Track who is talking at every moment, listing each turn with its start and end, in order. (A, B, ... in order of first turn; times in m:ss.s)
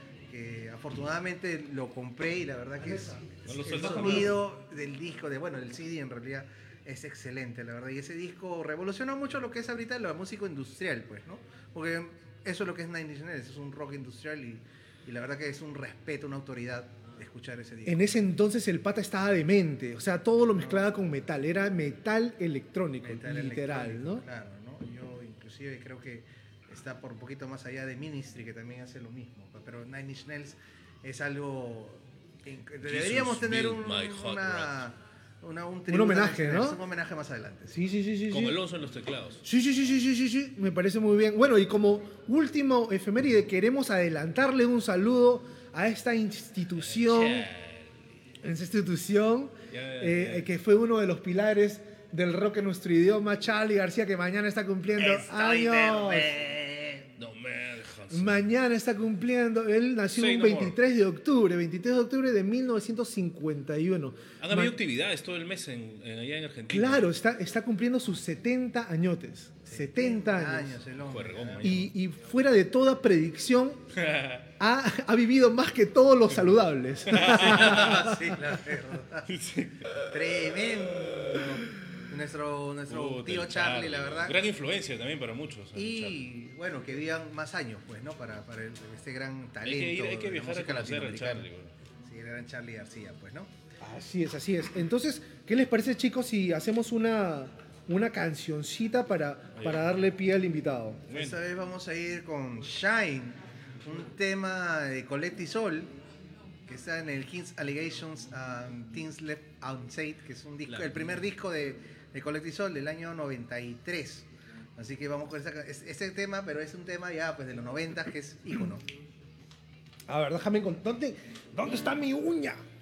0:00.3-0:18.2 A
0:02.8-0:04.4 B
0:03.5-0:04.4 C
0:17.8-0:24.2 B
0:20.6-0:20.8 A
0:23.0-0:37.8 A
0:32.8-0:34.9 C
0:35.9-0:36.8 B
0:37.7-0:38.6 B
0:38.3-0:39.4 C
0:39.4-0:47.5 B
0:46.9-0:48.0 C
0:48.4-0:56.3 B
0:49.7-0:50.5 C
0:55.0-0:57.1 A
0:57.2-0:58.4 C
0:58.1-1:04.8 B
1:00.1-1:00.8 C
1:04.4-1:07.1 C
1:06.7-1:10.8 B
1:09.7-1:11.7 A
1:11.0-1:11.9 C
1:11.6-1:13.8 B
1:14.0-1:14.5 C
1:14.6-1:18.4 B
1:17.1-1:17.9 C
1:17.2-1:19.3 A
1:19.3-1:20.1 C
1:20.1-1:24.4 A
1:22.9-1:26.2 C
1:25.8-1:31.5 A
1:29.6-1:31.7 C
1:32.0-1:33.5 A
1:33.8-1:41.0 B
1:39.6-1:39.9 C
1:41.1-1:41.4 C
1:41.1-1:45.9 A
1:46.7-1:58.8 A
1:50.7-1:51.2 C
2:00.1-2:02.6 B